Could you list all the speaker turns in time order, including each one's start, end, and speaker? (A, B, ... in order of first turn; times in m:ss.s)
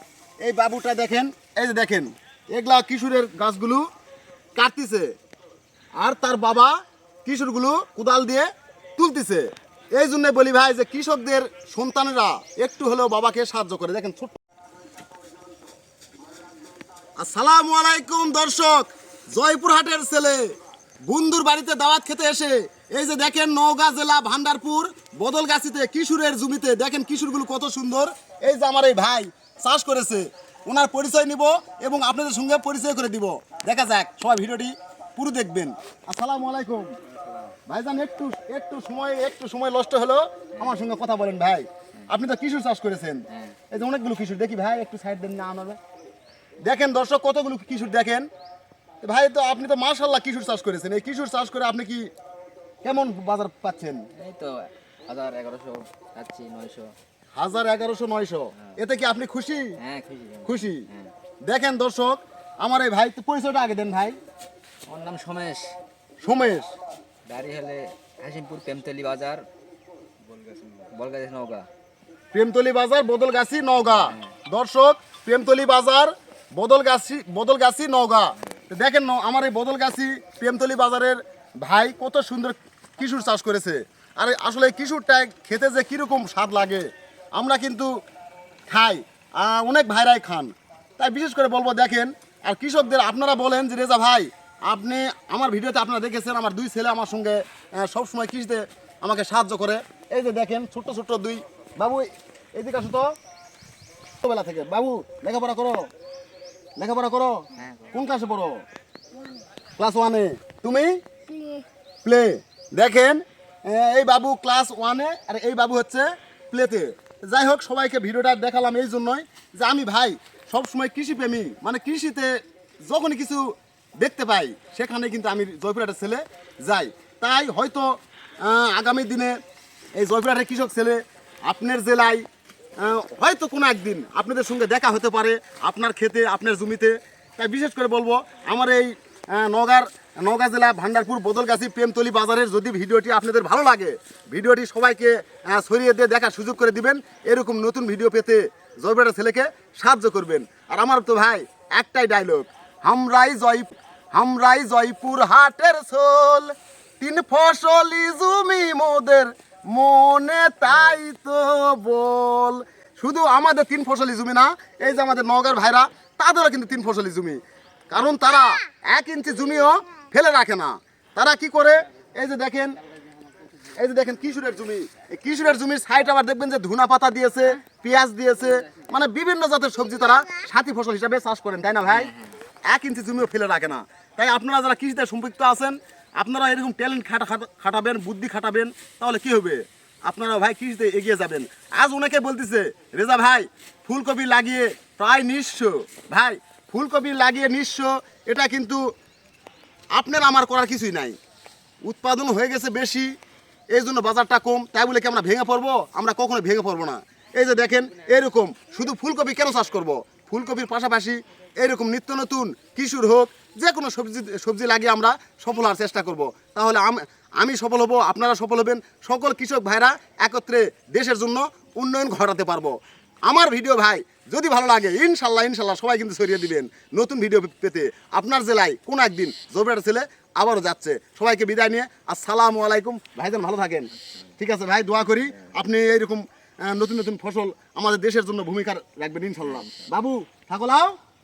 0:00.4-0:03.9 A
0:04.6-0:05.1 A
0:06.0-0:14.4 A
0:17.2-0:20.5 A
0:21.1-0:36.9 A
0:37.0-0:37.5 B
0:37.7-0:45.8 A
0:43.3-0:43.6 B
0:46.6-0:48.2 A
0:49.0-0:52.1 A
0:52.8-0:54.1 A
0:54.2-0:56.9 B
0:57.4-0:59.8 A
0:59.8-1:01.1 B
1:00.4-1:00.8 A
1:01.4-1:04.2 A
1:04.9-1:05.7 B
1:06.2-1:06.7 A
1:07.2-1:09.4 B
1:10.2-1:11.7 B
1:12.3-1:27.9 A
1:13.9-1:14.3 B
1:28.7-1:43.1 A
1:44.2-1:45.9 A
1:46.8-1:48.6 A
1:47.5-1:48.0 B
1:49.8-1:51.0 A
1:52.0-2:09.4 A
2:10.0-2:12.2 A
2:12.8-2:47.4 A
2:47.9-2:52.8 A
2:53.8-3:02.1 A
3:01.9-3:02.4 B
3:02.7-3:18.8 A
3:19.9-3:21.2 A
3:21.8-3:23.1 A
3:23.7-3:42.7 A
3:43.3-4:01.0 A
3:54.0-3:54.3 B
3:55.2-3:55.6 B
3:59.4-3:59.9 B